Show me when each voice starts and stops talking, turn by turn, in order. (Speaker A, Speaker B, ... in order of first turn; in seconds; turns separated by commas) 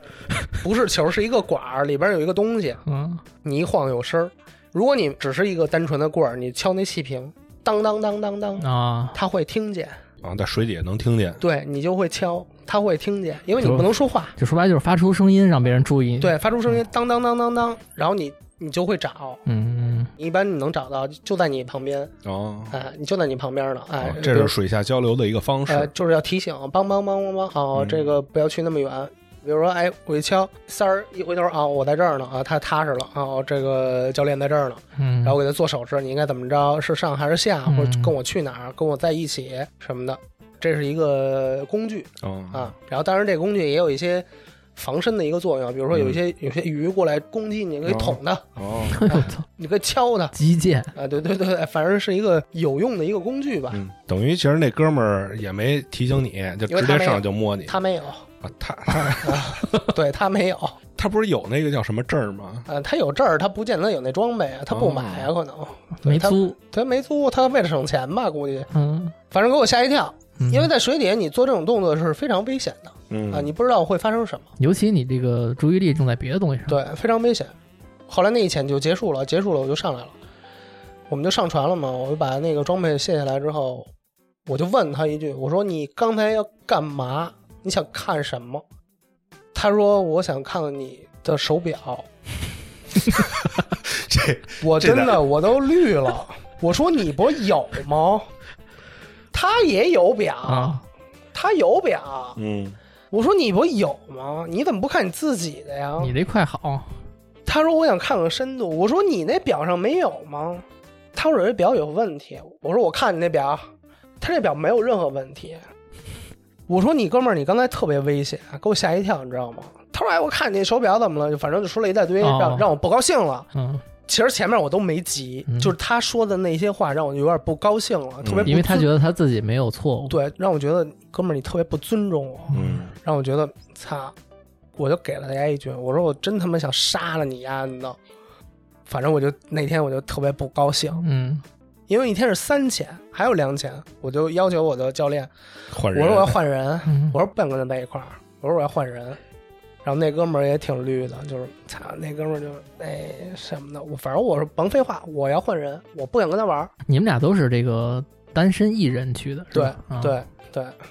Speaker A: 0.3-0.5, Speaker B: 0.6-2.8, Speaker A: 2.9-3.2, Speaker B: 3.4-10.0, Speaker A: 8.6-9.2, Speaker C: 10.2-11.4, Speaker B: 11.4-14.3, Speaker A: 13.6-16.3, Speaker B: 16.2-19.4, Speaker A: 19.4-20.1, Speaker B: 20.2-22.1, Speaker C: 22.2-22.8, Speaker B: 22.7-24.6, Speaker C: 24.0-25.9, Speaker B: 25.7-48.5, Speaker C: 27.8-28.1, Speaker A: 35.0-35.4, Speaker A: 37.7-38.1, Speaker C: 42.2-42.7, Speaker C: 45.9-46.2, Speaker C: 47.9-49.0, Speaker A: 48.9-49.4, Speaker B: 49.1-50.3, Speaker A: 50.3-50.9, Speaker B: 51.0-53.8, Speaker C: 53.7-57.8, Speaker B: 56.7-58.2, Speaker C: 58.4-59.9, Speaker B: 59.2-60.8, Speaker C: 61.0-62.7, Speaker B: 62.7-68.7, Speaker C: 64.7-65.3, Speaker A: 66.0-66.5, Speaker A: 68.7-69.1, Speaker B: 69.3-74.5, Speaker A: 70.4-70.7, Speaker C: 73.1-73.5, Speaker A: 74.6-76.8, Speaker B: 76.7-77.5, Speaker B: 78.1-80.1, Speaker B: 81.1-83.9, Speaker B: 84.5-88.6, Speaker B: 89.5-92.1, Speaker C: 93.4-95.2, Speaker B: 94.6-98.3, Speaker B: 99.3-100.8, Speaker A: 100.5-100.8, Speaker B: 101.3-102.4, Speaker C: 102.4-102.8, Speaker B: 103.1-106.1, Speaker A: 106.0-107.0, Speaker B: 107.5-113.7, Speaker B: 114.2-115.6, Speaker B: 116.7-123.5, Speaker A: 122.2-122.7, Speaker A: 123.5-123.8, Speaker B: 124.1-128.9, Speaker A: 125.5-125.7, Speaker C: 128.2-128.5, Speaker A: 128.4-130.2, Speaker B: 130.1-134.1, Speaker A: 132.5-132.8, Speaker C: 132.5-132.9, Speaker B: 134.8-138.0, Speaker B: 138.9-141.0, Speaker A: 141.0-141.4, Speaker B: 141.9-145.3, Speaker C: 145.7-146.4, Speaker B: 145.9-149.2, Speaker A: 146.8-147.2, Speaker B: 149.8-156.7, Speaker A: 156.9-160.2, Speaker B: 159.5-160.8